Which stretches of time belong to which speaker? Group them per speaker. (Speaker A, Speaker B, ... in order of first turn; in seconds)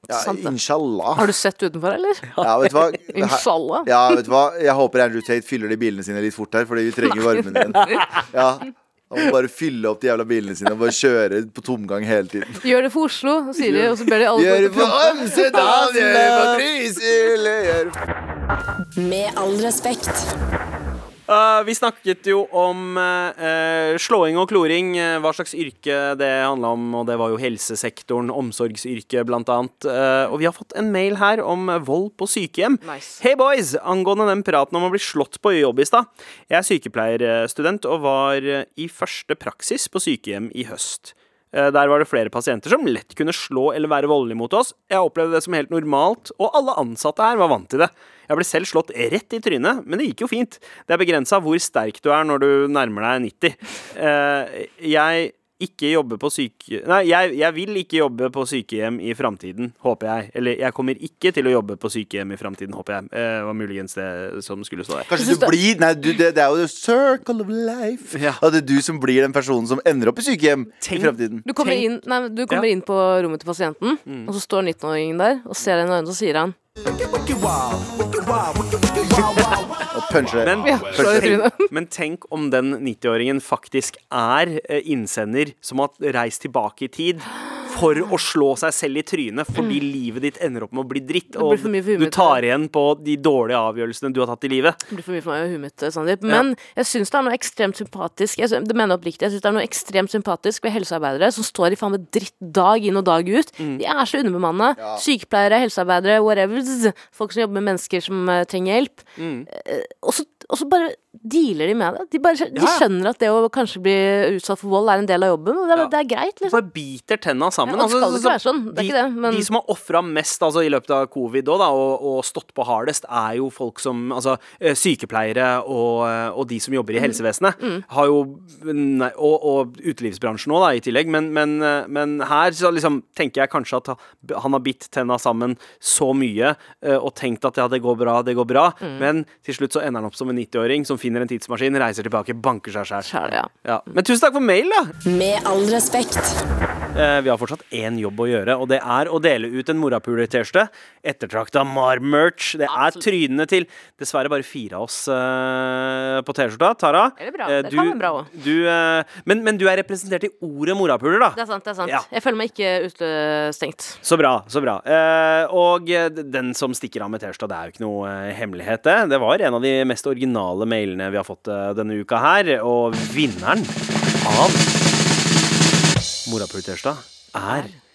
Speaker A: 0.1-0.5, 1.1-2.3, 3.1-3.9, 12.6-15.6, 32.8-33.2, 65.2-65.5, 71.5-76.5, 80.6-81.7, 91.3-92.4, 94.9-116.6, 117.7-119.5, 127.0-127.8, 138.8-139.1, 143.0-143.5, 152.7-153.0, 157.2-158.3, 161.3-164.0
Speaker B: 0.1-1.3, 2.4-12.6, 13.6-17.9, 65.1-71.5, 76.9-81.3, 104.8-105.0
Speaker C: 2.3-3.0, 7.8-8.1, 15.5-16.6, 21.3-65.1, 68.1-68.4, 70.8-71.9, 79.1-94.8, 109.2-109.5, 112.5-112.8, 116.5-144.9, 146.9-162.1, 164.0-174.7, 176.2-177.7
Speaker D: 18.9-20.3, 145.0-146.4